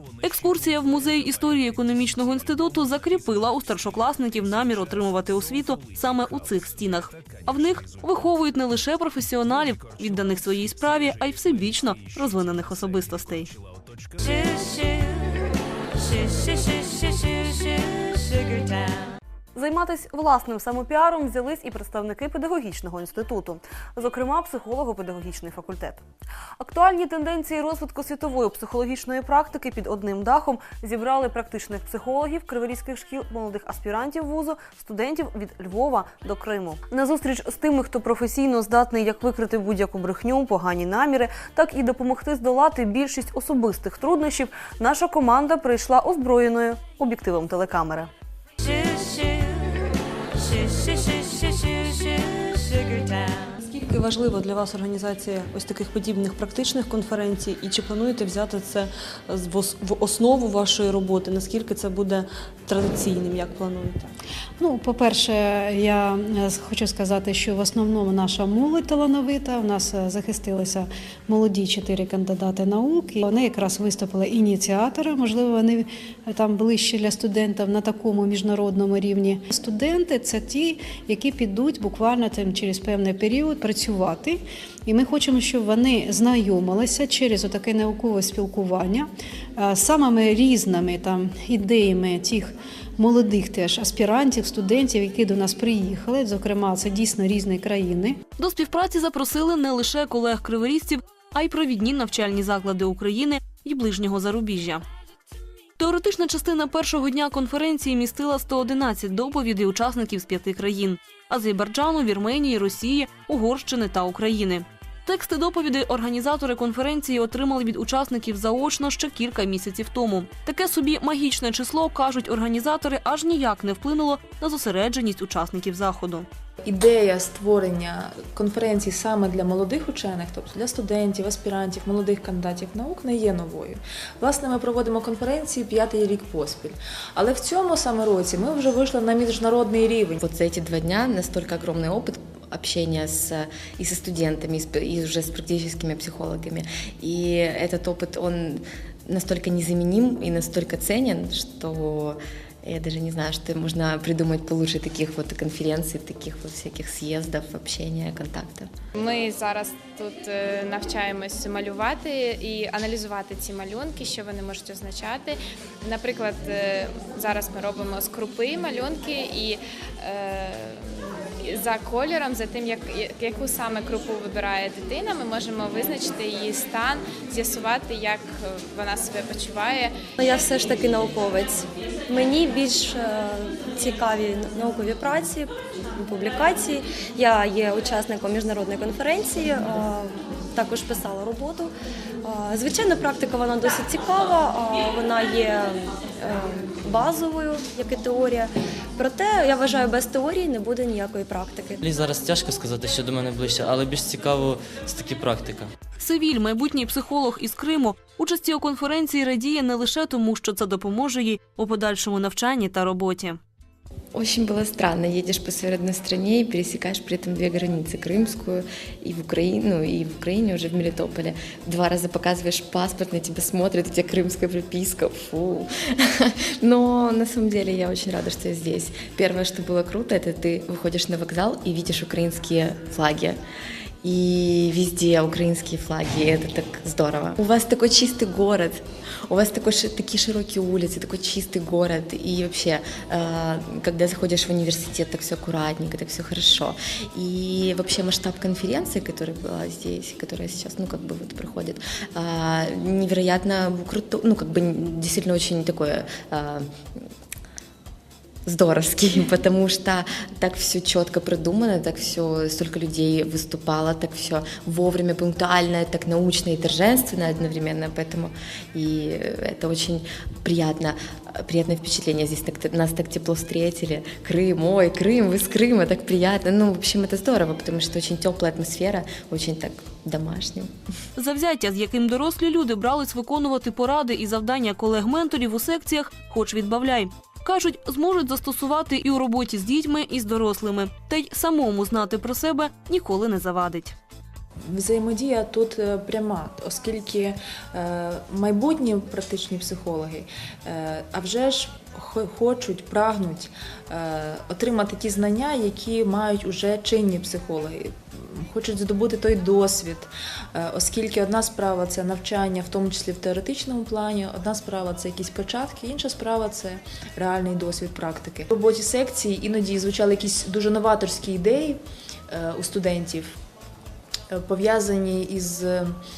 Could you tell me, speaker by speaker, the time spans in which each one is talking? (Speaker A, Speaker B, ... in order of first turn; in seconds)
Speaker A: 0.2-13.5, 19.5-26.0, 26.6-48.1, 53.6-64.0, 98.4-104.8, 105.8-126.3, 206.0-213.4, 281.1-293.9
Speaker B: 14.2-19.1, 48.6-53.5
Speaker C: 64.6-98.2
Speaker D: 126.6-140.2, 294.7-323.4, 324.3-326.0
Speaker E: 140.2-158.7, 214.1-233.4, 234.0-257.1, 258.4-280.7
Speaker F: 158.9-179.9
Speaker G: 180.2-191.7, 192.2-201.8
Speaker H: 201.8-205.7